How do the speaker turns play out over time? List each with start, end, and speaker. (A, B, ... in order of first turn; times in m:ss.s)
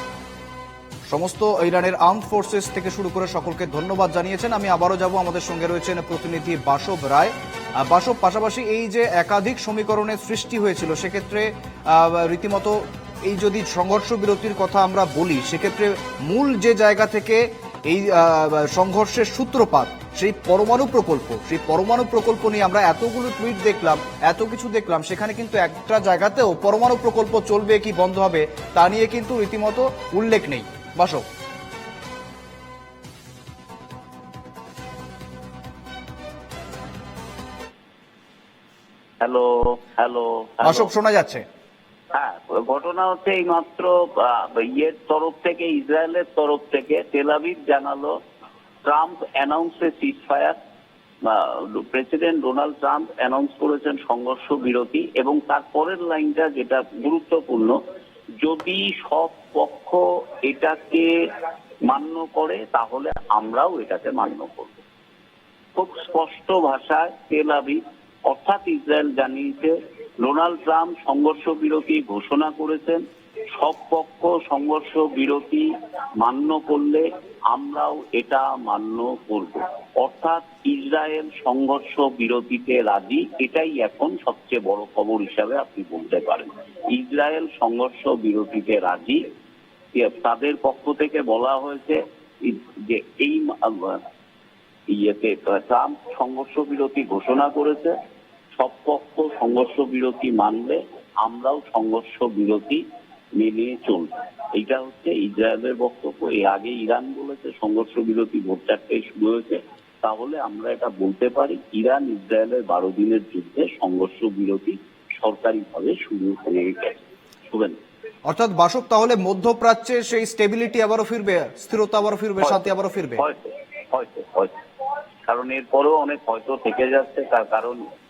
0:01.1-0:31.2 A
0:39.2-0:40.9 B
0:40.6-0:41.4 A
0:42.1-0:48.2 B
0:48.8-0:50.6 B
0:51.2-0:57.8 B
0:58.4-1:01.1 B
1:01.9-1:04.8 B
1:05.7-1:13.0 B
1:13.5-1:29.2 B
1:29.9-1:34.0 B
1:34.9-1:37.9 B
1:38.6-1:42.8 B
1:43.4-1:57.8 B
1:58.3-2:03.2 A
2:02.4-2:04.5 B
2:05.3-2:07.8 B